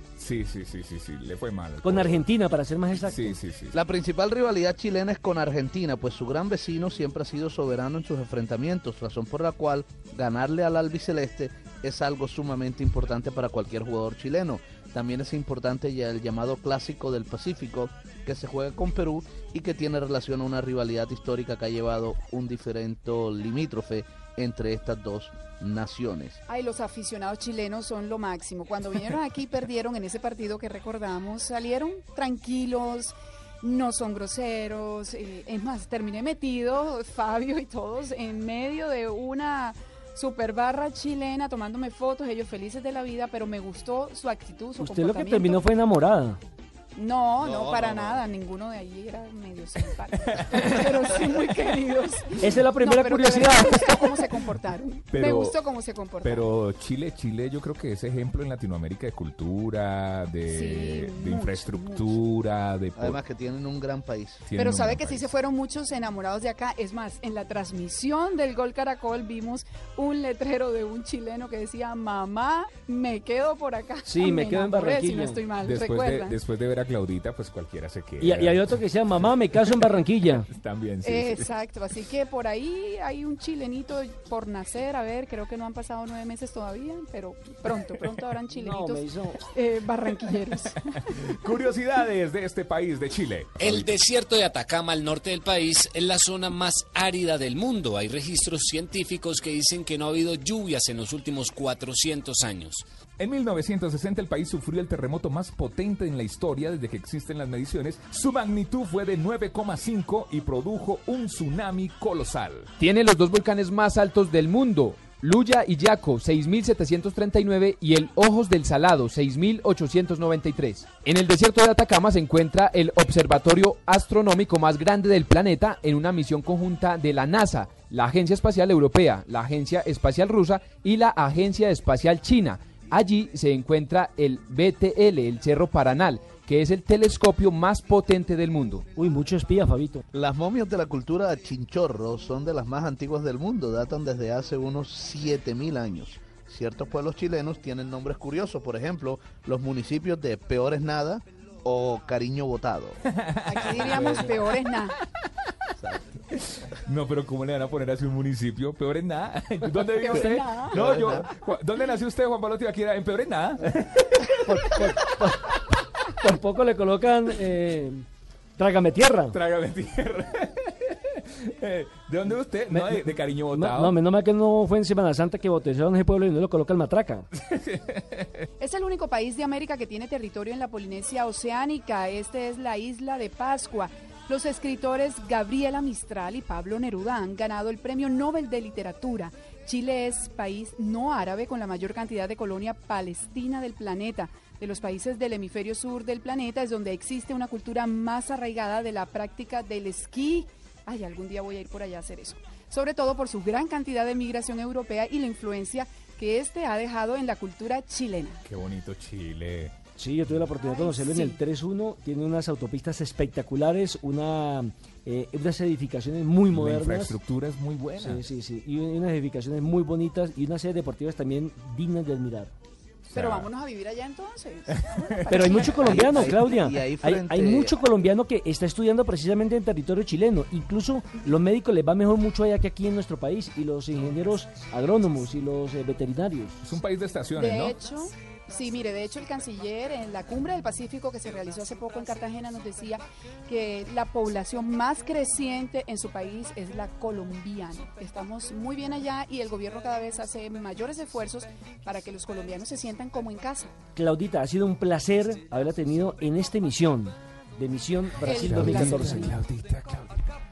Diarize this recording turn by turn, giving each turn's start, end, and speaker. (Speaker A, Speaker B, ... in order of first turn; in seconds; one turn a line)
Speaker A: 0.2-2.2
Speaker B: 1.8-3.4
Speaker A: 3.0-3.8
Speaker C: 3.7-26.4
Speaker D: 26.5-45.6
Speaker B: 44.8-46.4
Speaker D: 47.0-56.4
Speaker C: 47.4-48.2
Speaker A: 50.3-50.9
Speaker B: 52.4-54.1
Speaker A: 55.1-55.6
Speaker A: 56.2-63.2
Speaker D: 60.5-62.1
Speaker C: 63.0-64.5
Speaker A: 64.5-65.3
Speaker D: 64.6-76.3
Speaker B: 74.1-75.4
Speaker A: 75.6-78.8
Speaker B: 78.2-80.5
Speaker A: 80.4-81.5
Speaker D: 81.0-90.8
Speaker B: 88.5-89.4
Speaker A: 91.3-94.0
Speaker E: 93.6-102.8
Speaker A: 103.2-112.7
Speaker F: 112.8-138.9
Speaker B: 139.0-140.0
Speaker C: 140.1-153.0
Speaker A: 153.1-154.3
Speaker D: 153.5-155.0
Speaker C: 155.8-156.1
Speaker A: 156.4-164.4
Speaker D: 160.0-160.8
Speaker C: 160.7-161.3
Speaker B: 164.4-165.5
Speaker B: 166.2-168.1
Speaker B: 168.6-169.4
Speaker A: 169.3-173.9
Speaker B: 172.7-177.3
Speaker A: 177.5-178.4
Speaker D: 178.6-208.4
Speaker A: 208.4-209.7
Speaker B: 210.0-217.2
Speaker D: 210.6-211.4
Speaker A: 216.5-218.2
Speaker B: 218.0-222.5
Speaker A: 223.1-223.5
Speaker D: 223.1-226.3
Speaker A: 224.7-225.6
Speaker B: 225.3-236.6
Speaker C: 225.8-227.8
Speaker A: 236.6-237.8
Speaker D: 237.4-253.7
Speaker B: 254.0-259.4
Speaker D: 258.2-259.4
Speaker A: 258.3-260.2